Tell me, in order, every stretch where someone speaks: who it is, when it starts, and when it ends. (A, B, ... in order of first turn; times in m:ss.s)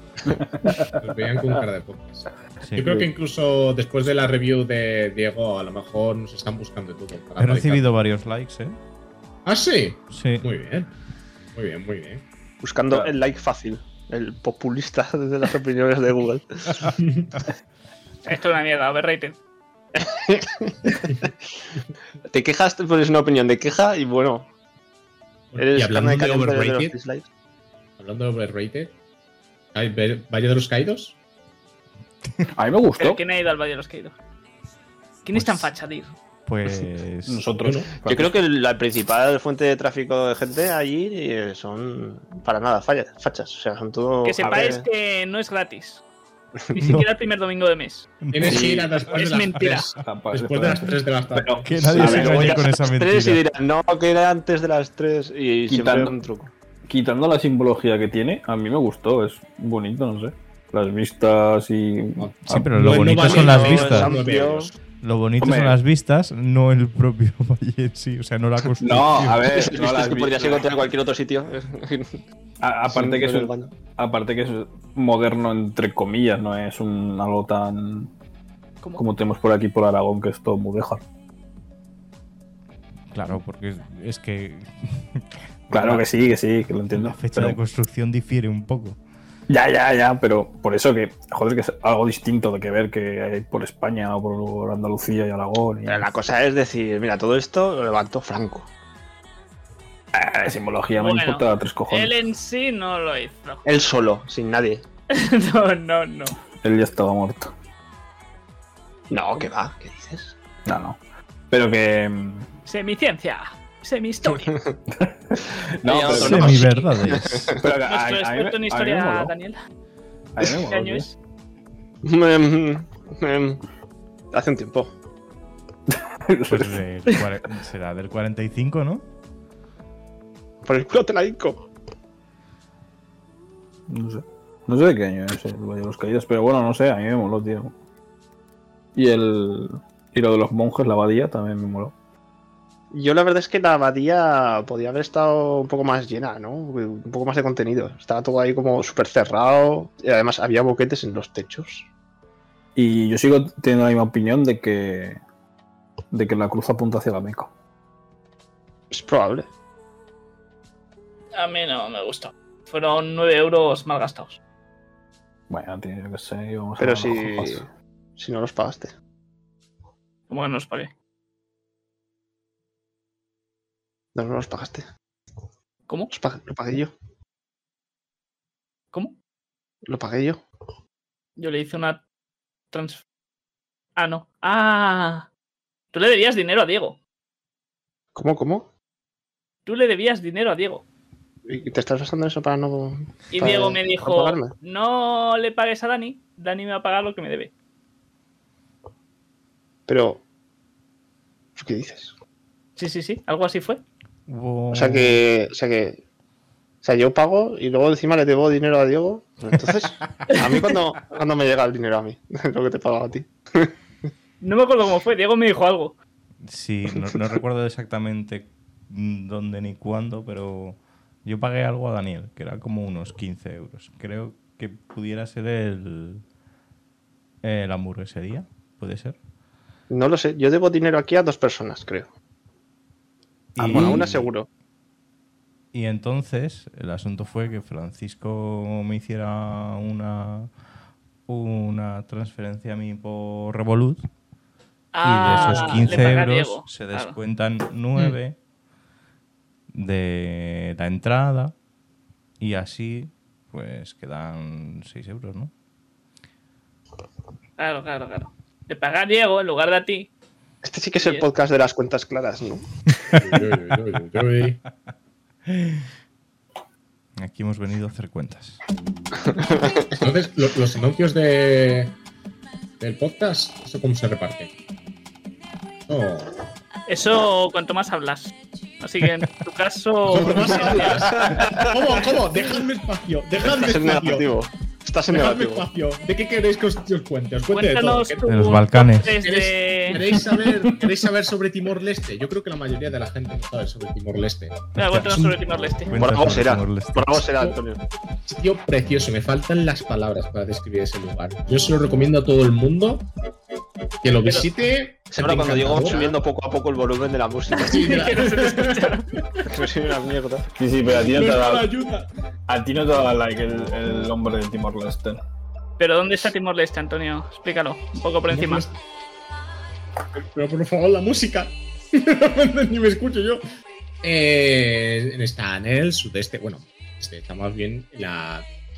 0:00.4-0:01.0 A
0:01.0-0:07.9 B
0:02.7-0:03.0 C
0:07.4-0:08.8 C
0:09.4-0:10.9 B
0:10.1-0:10.4 C
0:11.5-0:12.2 B
0:12.6-0:16.9 D
0:16.8-0:17.4 B
0:18.2-0:19.4 E
0:20.0-0:20.8 D
0:22.3-0:24.5 D
0:25.5-0:27.0 B
0:25.6-0:27.3 D
0:28.0-0:28.9 B
0:29.7-0:31.2 B
0:32.6-0:33.2 A
0:33.0-0:34.2 E
0:35.3-0:36.1 E
0:35.3-0:35.7 C
0:36.5-0:37.4 C
0:37.3-0:38.4 A
0:37.6-0:37.9 B
0:38.0-0:44.8 D
0:44.2-0:46.0 E
0:44.4-0:44.8 A
0:46.7-0:48.1 E
0:48.2-0:48.6 C
0:48.3-0:52.0 B
0:48.4-0:49.0 A
0:49.1-0:49.9 E
0:50.0-0:52.6 A
0:51.6-0:53.4 C
0:52.0-0:56.5 D
0:55.7-0:56.2 A
0:56.9-1:02.8 A
1:02.2-1:04.8 B
1:02.5-1:04.1 C
1:03.2-1:04.7 D
1:05.0-1:09.4 C
1:05.4-1:05.8 A
1:08.8-1:10.7 A
1:09.5-1:12.2 D
1:12.6-1:18.1 A
1:12.9-1:13.7 D
1:19.0-1:21.0 A
1:23.1-1:26.1 C
1:25.7-1:27.6 A
1:26.9-1:29.0 C
1:29.5-1:36.1 A
1:35.9-1:38.7 D
1:40.1-1:42.1 A
1:41.0-1:43.6 E
1:43.6-1:44.8 D
1:45.1-1:46.4 E
1:46.6-1:47.5 A
1:49.1-1:50.4 D
1:50.7-1:51.0 A
1:51.5-1:52.5 A
1:52.7-1:54.6 E
1:54.3-1:54.7 D
1:55.0-1:56.7 A
1:55.8-1:57.6 D
1:56.1-1:57.6 C
1:56.4-1:56.8 E
1:57.5-1:59.3 A
1:57.8-1:59.6 E
2:00.4-2:01.1 A
2:00.4-2:01.1 E
2:02.0-2:03.6 D
2:04.3-2:04.9 D
2:05.9-2:06.8 A
2:06.5-2:09.0 C
2:10.6-2:11.7 D
2:13.9-2:17.7 A
2:19.0-2:21.9 A
2:22.9-2:31.9 D
2:32.8-2:35.2 A
2:36.1-2:37.5 A
2:38.9-2:39.5 D
2:41.4-2:44.4 E
2:45.5-2:47.6 A
2:46.8-2:48.9 D
2:50.3-2:50.9 E
2:54.2-2:54.9 D
2:56.1-2:56.9 D
2:59.9-3:00.4 D
3:01.4-3:02.0 E
3:02.7-3:03.0 E
3:04.0-3:05.3 E
3:05.9-3:07.0 E
3:08.2-3:08.7 D
3:09.7-3:10.8 E
3:11.5-3:14.5 D
3:13.3-3:17.5 E
3:19.9-3:20.2 D
3:21.6-3:22.1 D
3:22.8-3:23.8 E
3:24.3-3:25.2 C
3:24.7-3:26.0 D
3:26.8-3:33.7 D
3:34.4-3:36.0 E
3:36.4-3:46.2 C
3:47.4-3:49.2 C
3:49.9-3:52.1 D
3:53.6-3:54.3 C
3:53.6-3:54.5 D
3:55.7-4:00.5 C
4:01.3-4:04.1 C
4:04.9-4:07.2 E
4:05.0-4:08.4 C
4:09.7-4:11.6 C
4:12.4-4:15.5 C
4:17.6-4:20.1 E
4:20.6-4:22.7 D
4:23.2-4:24.6 B
4:25.5-4:25.9 C
4:27.2-4:28.6 C
4:29.2-4:29.9 D
4:30.0-4:32.0 B
4:32.8-4:34.5 B
4:35.9-4:36.4 B
4:36.9-4:41.1 E
4:40.0-4:44.3 B
4:40.5-4:41.7 D
4:43.4-4:45.7 D
4:45.1-4:48.2 B
4:47.5-4:50.0 E
4:48.3-4:49.2 C
4:49.1-4:55.6 B
4:50.1-4:50.9 A
4:54.8-4:56.0 E
4:55.9-4:57.3 C
4:55.9-4:57.8 D
4:58.3-5:03.1 B
5:04.0-5:06.2 B
5:05.1-5:07.9 D
5:07.5-5:09.4 B
5:07.7-5:09.1 E
5:09.4-5:10.5 D
5:10.6-5:11.7 A
5:11.0-5:12.1 B
5:12.5-5:15.2 A
5:15.8-5:18.7 E
5:18.3-5:18.7 B
5:20.1-5:23.4 B
5:24.0-5:28.5 B